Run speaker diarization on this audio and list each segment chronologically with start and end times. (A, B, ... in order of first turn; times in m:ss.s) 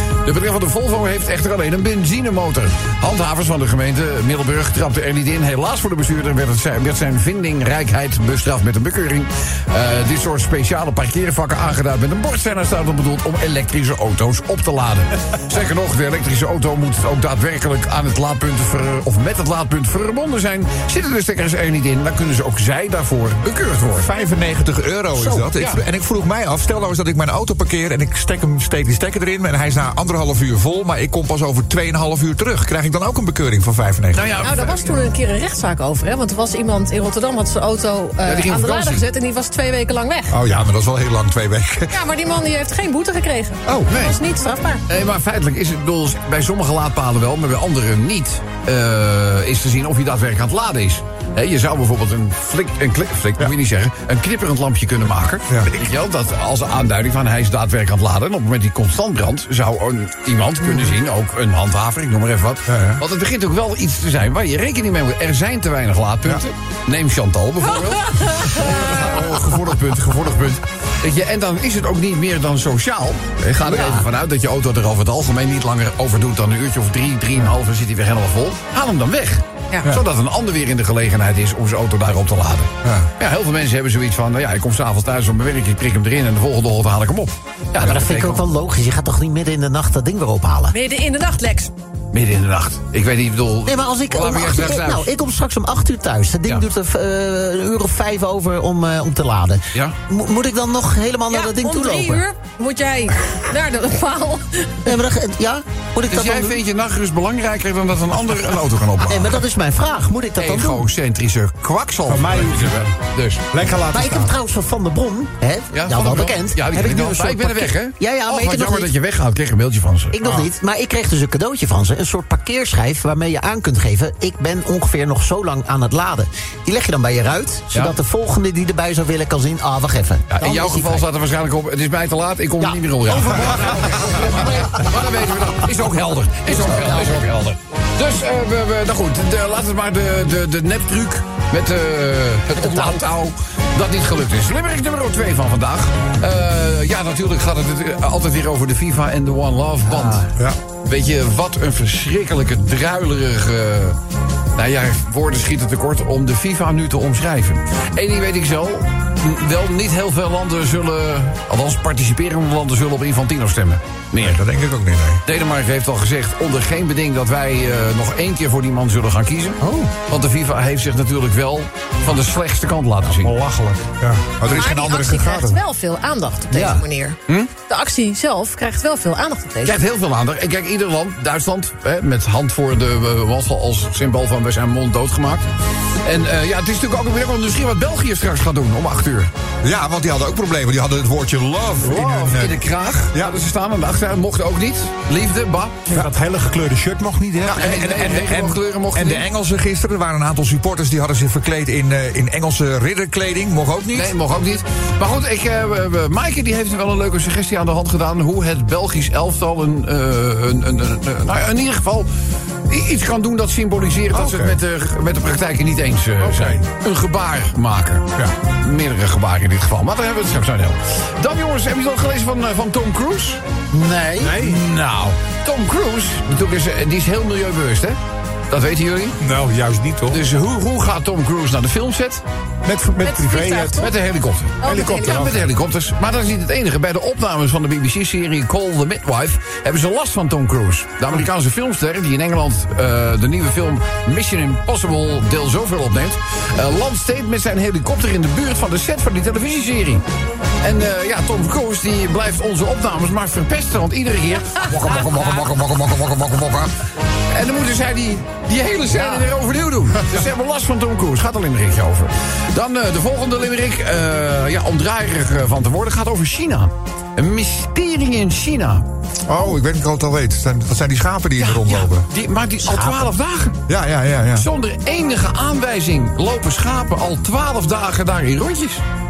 0:00.2-0:24.1 A
0:23.9-0:34.4 B
0:25.1-0:25.5 C
0:25.6-0:25.8 A
0:34.1-0:35.0 A
0:34.4-0:40.3 D
0:38.2-0:39.0 A
0:40.3-0:42.0 B
0:41.9-0:44.8 D
0:43.9-0:44.2 A
0:44.9-1:28.4 A
1:02.7-1:03.0 B
1:07.7-1:09.0 D
1:22.8-1:23.1 B
1:27.8-1:30.8 C
1:30.7-1:31.7 D
1:32.1-1:35.1 A
1:33.6-1:42.2 C
1:41.3-1:44.9 D
1:44.8-1:46.6 C
1:46.1-1:49.4 A
1:49.0-1:50.9 C
1:50.4-1:53.4 A
1:52.1-1:52.9 E
1:53.5-1:54.3 E
1:53.9-1:58.9 C
1:55.7-2:00.2 A
2:00.1-2:11.1 C
2:00.2-2:00.5 E
2:10.3-2:30.3 A
2:12.6-2:14.6 C
2:16.5-2:17.2 C
2:22.6-2:23.0 C
2:29.9-2:30.2 C
2:30.8-2:34.0 A
2:34.6-2:44.4 A
2:44.2-2:45.2 B
2:45.2-2:53.4 A
2:49.6-2:49.9 C
2:53.1-2:54.3 E
2:54.4-2:55.6 B
2:54.5-2:59.8 D
2:56.5-2:56.8 C
2:59.6-3:05.5 A
3:06.0-3:09.3 A
3:09.6-3:13.4 B
3:11.8-3:15.8 A
3:15.9-3:17.8 E
3:17.4-3:24.1 B
3:17.5-3:19.2 A
3:23.9-3:32.1 A
3:32.7-3:43.4 A
3:34.1-3:34.6 B
3:36.2-3:36.6 E
3:43.7-3:44.4 C
3:44.2-3:44.6 E
3:44.4-3:48.0 A
3:48.5-3:49.2 A
3:49.2-3:50.2 E
3:50.1-3:52.2 A
3:52.6-3:53.9 E
3:53.0-3:53.9 D
3:53.8-4:10.0 A
3:54.6-3:55.3 D
3:54.6-3:55.5 E
4:10.6-4:15.8 A
4:14.6-4:16.7 B
4:17.3-4:28.9 A
4:29.3-4:32.1 B
4:31.4-4:33.6 A
4:32.6-4:33.1 C
4:33.7-4:34.5 B
4:34.3-4:38.8 A